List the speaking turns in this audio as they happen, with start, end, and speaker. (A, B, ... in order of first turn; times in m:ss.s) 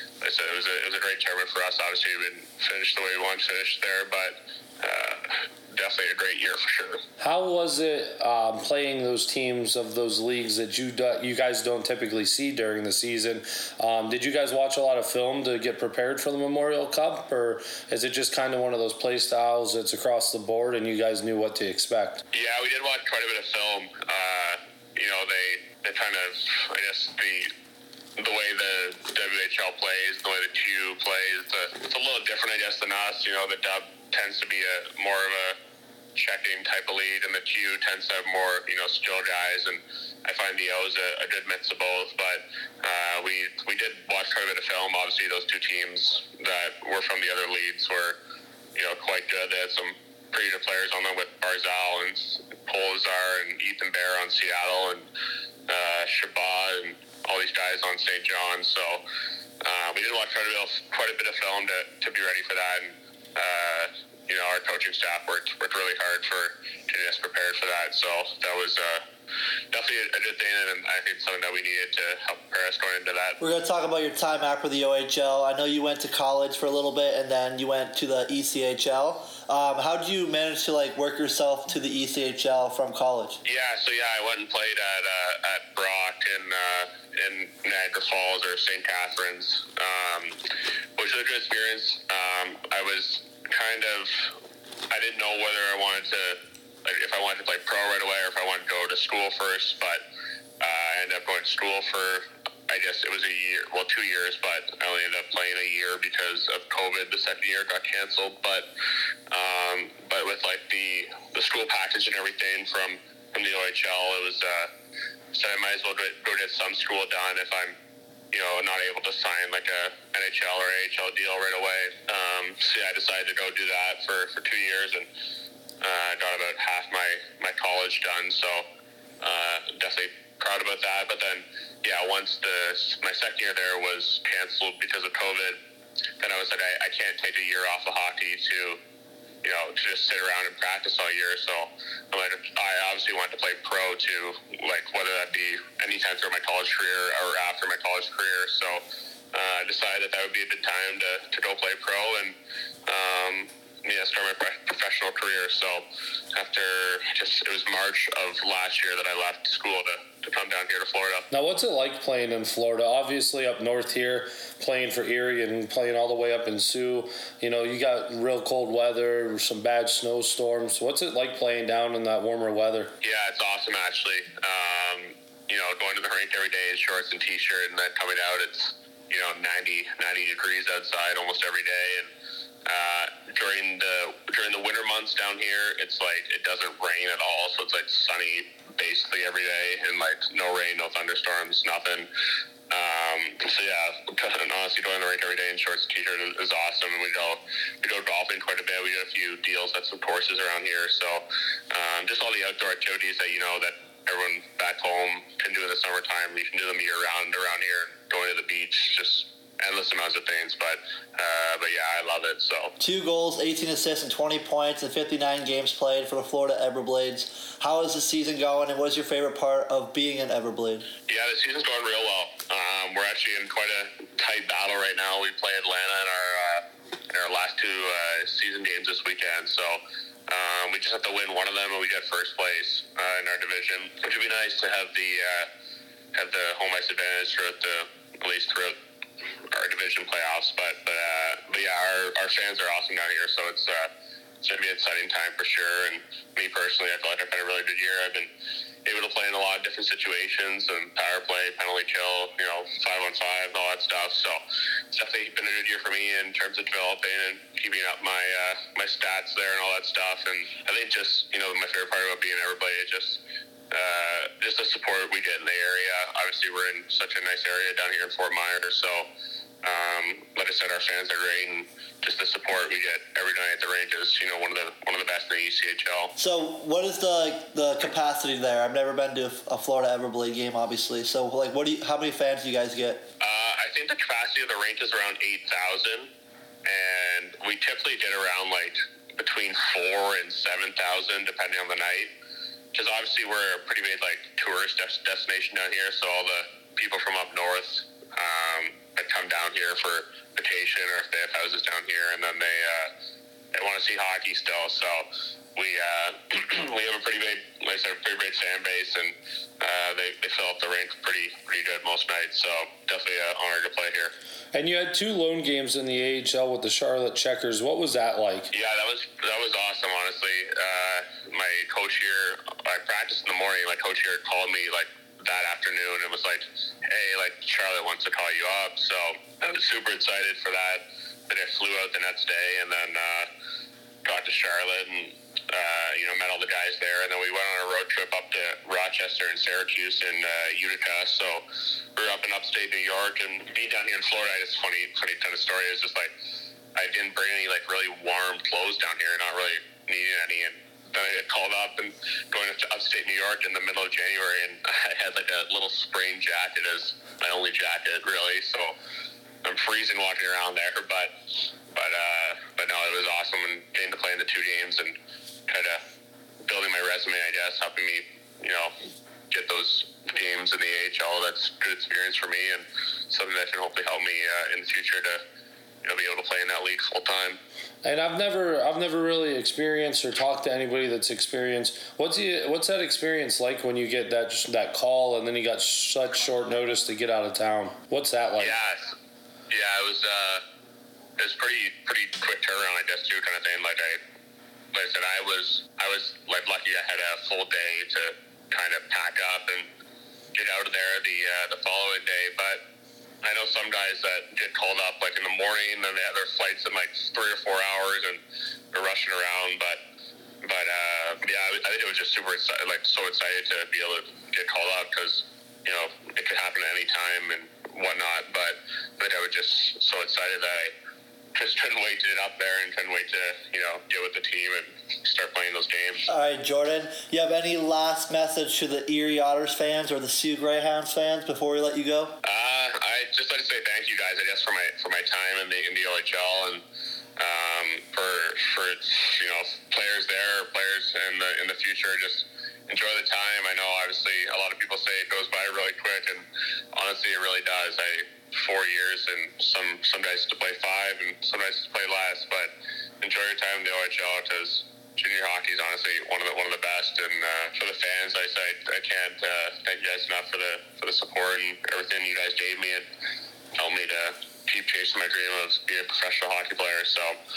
0:00.2-0:07.0 A
0:07.2-0:22.2 B
0:22.3-0:27.5 A
0:28.2-0:35.6 A
0:36.2-0:48.2 A
0:48.8-0:55.1 A
0:55.7-0:59.0 A
0:59.6-1:09.0 A
1:09.7-1:13.4 A
1:13.4-1:23.4 C
1:23.4-1:30.4 A
1:31.0-1:34.3 A
1:34.9-1:40.0 A
1:40.6-1:48.7 A
1:49.3-1:54.7 A
1:55.3-1:57.7 A
1:58.3-2:05.1 A
2:05.8-2:08.6 A
2:09.2-2:15.6 A
2:16.2-2:18.8 A
2:19.4-2:28.8 A
2:29.3-2:32.4 A
2:32.9-2:41.3 A
2:41.3-2:52.9 B
2:53.0-3:02.1 A
3:02.7-3:12.1 A
3:12.7-3:32.7 A
3:32.8-3:40.9 C
3:41.1-3:55.5 A
3:56.1-3:58.8 A
3:59.5-4:03.9 A
4:04.4-4:08.3 A
4:08.8-4:14.4 A
4:14.9-4:29.1 A
4:29.6-4:36.1 A
4:36.2-4:43.0 C
4:43.2-4:46.1 A
4:46.7-4:52.1 A
4:52.7-5:02.9 A
5:03.5-5:14.1 A
5:14.5-5:18.5 B
5:18.5-5:33.3 A
5:34.0-5:41.4 A
5:42.0-5:46.1 A
5:46.8-5:58.8 A
5:59.4-6:01.1 A
6:01.7-6:04.9 A
6:05.5-6:05.8 A
6:06.5-6:08.7 A
6:09.3-6:15.2 A
6:15.8-6:17.4 A
6:17.8-6:28.6 B
6:28.4-6:29.0 A
6:29.5-6:30.4 A
6:31.2-6:34.0 A
6:34.7-6:39.7 A
6:40.3-6:42.6 A
6:43.2-6:48.2 A
6:48.7-6:49.8 A
6:50.4-7:00.7 A
7:01.4-7:06.1 A
7:06.1-7:12.2 C
7:12.2-7:16.6 A
7:17.2-7:42.9 A
7:43.6-7:47.2 A